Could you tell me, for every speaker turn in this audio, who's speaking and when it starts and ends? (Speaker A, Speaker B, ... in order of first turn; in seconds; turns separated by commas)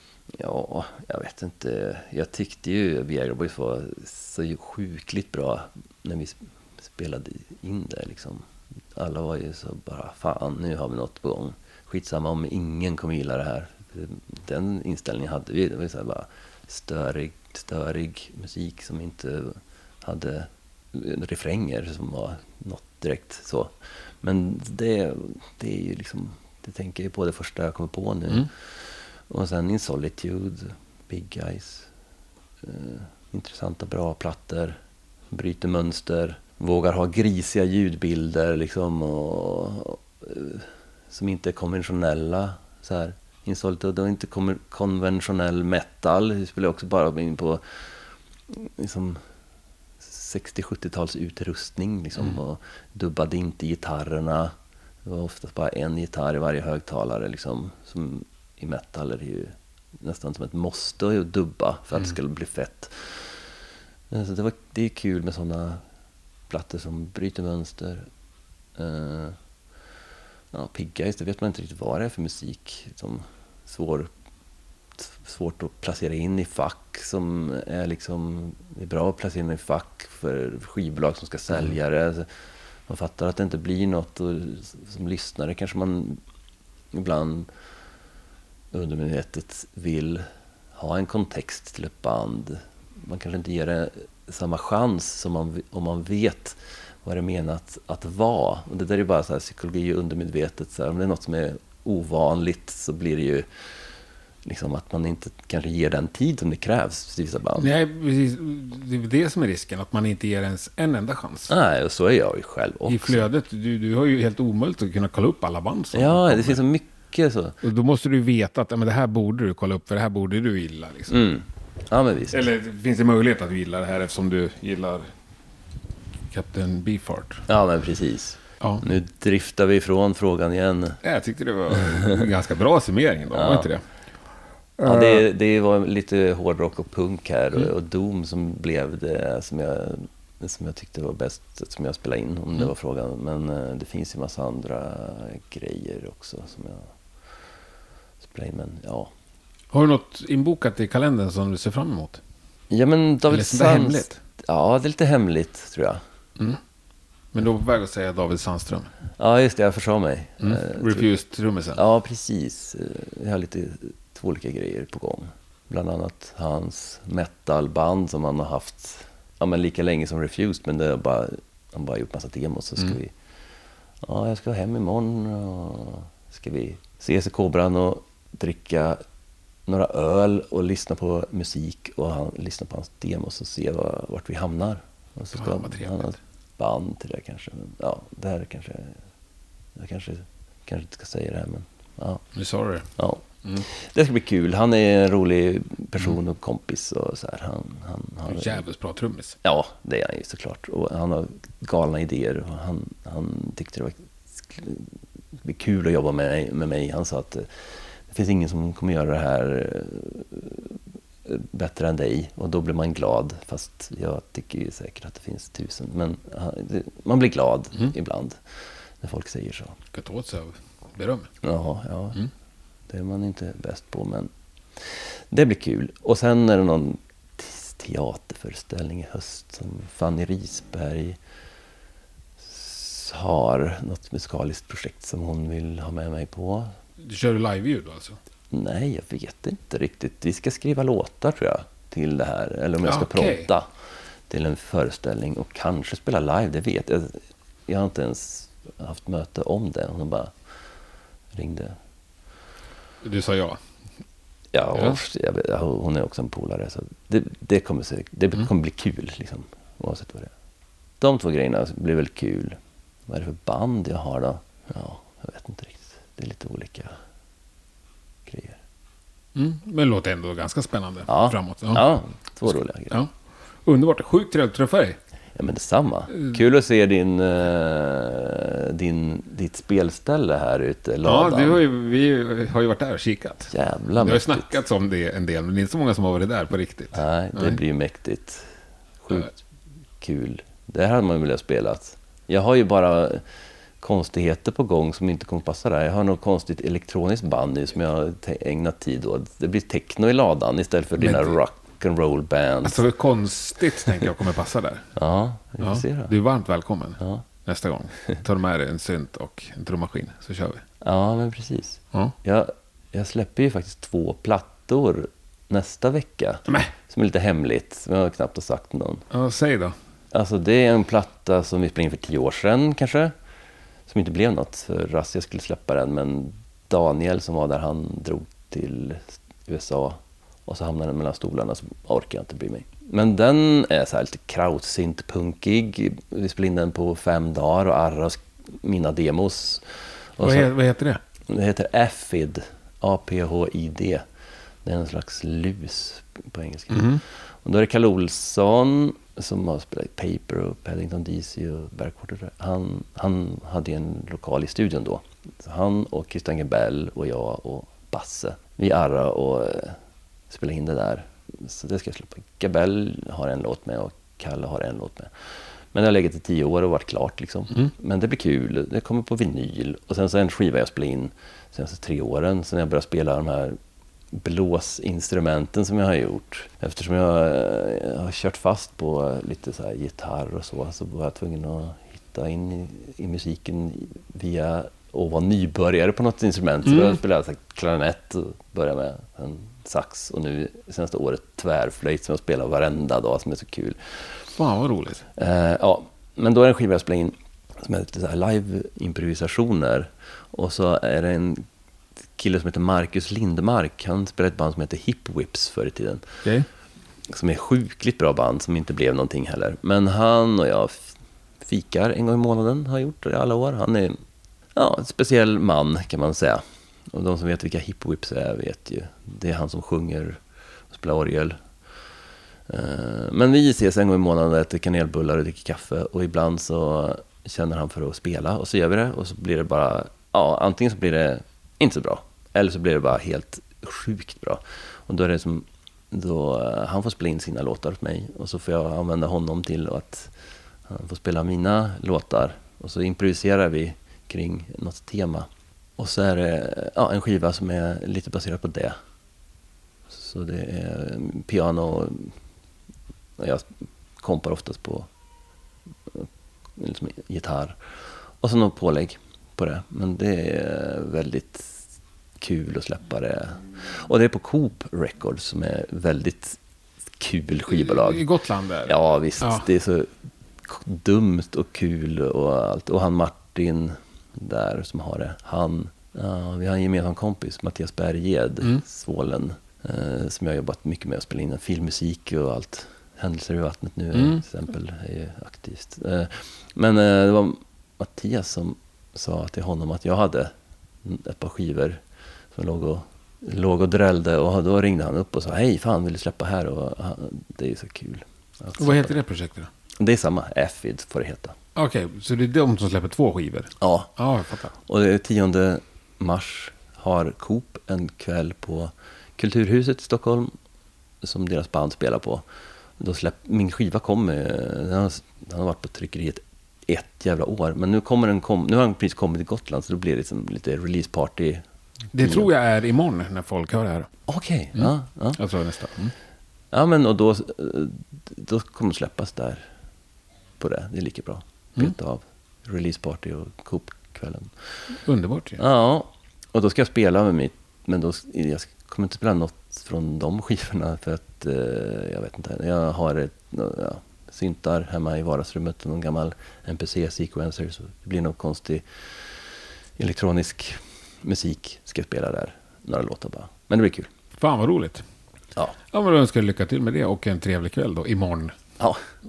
Speaker A: 0.3-31.9, Speaker A: 32.6-34.8, Speaker A: 35.3-47.9, Speaker A: 48.5-49.2, Speaker A: 50.0-54.5, Speaker A: 55.0-63.4, Speaker A: 64.1-65.8, Speaker A: 66.5-68.1, Speaker A: 68.8-69.3, Speaker A: 70.5-74.1, Speaker A: 75.0-82.3, Speaker A: 82.9-86.2, Speaker A: 86.9-87.5, Speaker A: 88.7-103.5, Speaker A: 104.4-107.7, Speaker B: 107.6-111.5, Speaker A: 111.5-113.2, Speaker B: 112.9-116.6, Speaker A: 115.9-117.6, Speaker B: 117.6-121.2, Speaker A: 121.1-122.4, Speaker B: 122.3-125.1, Speaker B: 126.3-127.5, Speaker A: 127.5-131.0, Speaker B: 131.0-133.8, Speaker A: 131.9-132.2, Speaker A: 133.3-133.7, Speaker B: 134.8-135.2, Speaker A: 134.8-146.9, Speaker A: 148.2-149.1, Speaker B: 149.7-152.2, Speaker A: 152.7-156.0, Speaker B: 153.3-154.2, Speaker B: 157.3-158.9, Speaker A: 159.2-161.1, Speaker B: 160.4-161.8, Speaker A: 161.7-173.1, Speaker A: 174.0-179.0, Speaker A: 179.7-189.0, Speaker B: 185.3-186.2, Speaker A: 189.8-192.2, Speaker B: 192.3-192.9, Speaker A: 192.9-198.6, Speaker B: 198.3-199.4, Speaker A: 199.4-204.9, Speaker A: 205.4-218.4, Speaker A: 219.0-219.8, Speaker B: 219.9-221.3, Speaker A: 221.4-222.2, Speaker A: 222.9-231.2, Speaker A: 232.4-236.7, Speaker B: 237.0-238.2, Speaker A: 238.5-243.7, Speaker B: 242.8-243.5, Speaker A: 244.3-250.3, Speaker A: 251.3-251.8, Speaker B: 253.0-253.6, Speaker A: 254.5-260.3, Speaker B: 254.7-255.0, Speaker A: 261.0-267.0, Speaker A: 268.2-268.6, Speaker B: 269.3-271.8, Speaker A: 271.1-273.0, Speaker B: 273.6-275.0, Speaker A: 275.4-281.6, Speaker B: 281.0-287.6, Speaker A: 283.5-284.5, Speaker A: 286.9-289.4, Speaker A: 290.0-293.2, Speaker A: 293.8-302.8, Speaker B: 301.0-301.3, Speaker B: 302.6-304.9, Speaker A: 304.9-306.1, Speaker B: 305.6-310.6, Speaker A: 307.0-307.2, Speaker A: 310.8-319.0, Speaker B: 319.1-319.7, Speaker A: 320.1-323.1, Speaker A: 323.9-340.5, Speaker B: 340.2-341.0, Speaker A: 341.3-344.0, Speaker A: 344.6-359.8, Speaker B: 346.7-347.0, Speaker A: 360.3-373.6, Speaker A: 374.1-394.0, Speaker B: 386.6-387.0, Speaker B: 394.4-395.0, Speaker A: 395.1-401.4, Speaker A: 402.2-406.1, Speaker A: 407.1-414.0, Speaker A: 414.5-420.2, Speaker A: 420.7-421.4, Speaker A: 422.5-440.1, Speaker A: 440.7-448.8, Speaker A: 449.9-452.1, Speaker A: 453.2-453.5, Speaker A: 454.0-454.9, Speaker A: 455.9-457.6, Speaker A: 458.2-461.6, Speaker A: 462.2-466.4, Speaker A: 467.0-468.0, Speaker B: 467.5-469.4, Speaker A: 468.6-469.9, Speaker A: 470.4-491.8, Speaker B: 483.9-484.2, Speaker A: 492.3-498.9, Speaker B: 498.6-499.5, Speaker A: 499.8-501.4, Speaker B: 501.6-504.5, Speaker A: 503.6-503.9, Speaker A: 504.6-510.3, Speaker A: 511.0-512.2, Speaker A: 512.8-521.4, Speaker B: 521.9-523.9, Speaker A: 522.0-522.3, Speaker A: 524.1-525.2, Speaker B: 524.5-525.9, Speaker A: 526.5-529.5, Speaker A: 530.4-534.3, Speaker B: 534.8-535.4, Speaker A: 535.4-548.6, Speaker A: 549.8-553.9, Speaker B: 554.2-554.8, Speaker B: 555.7-558.4, Speaker A: 558.6-558.8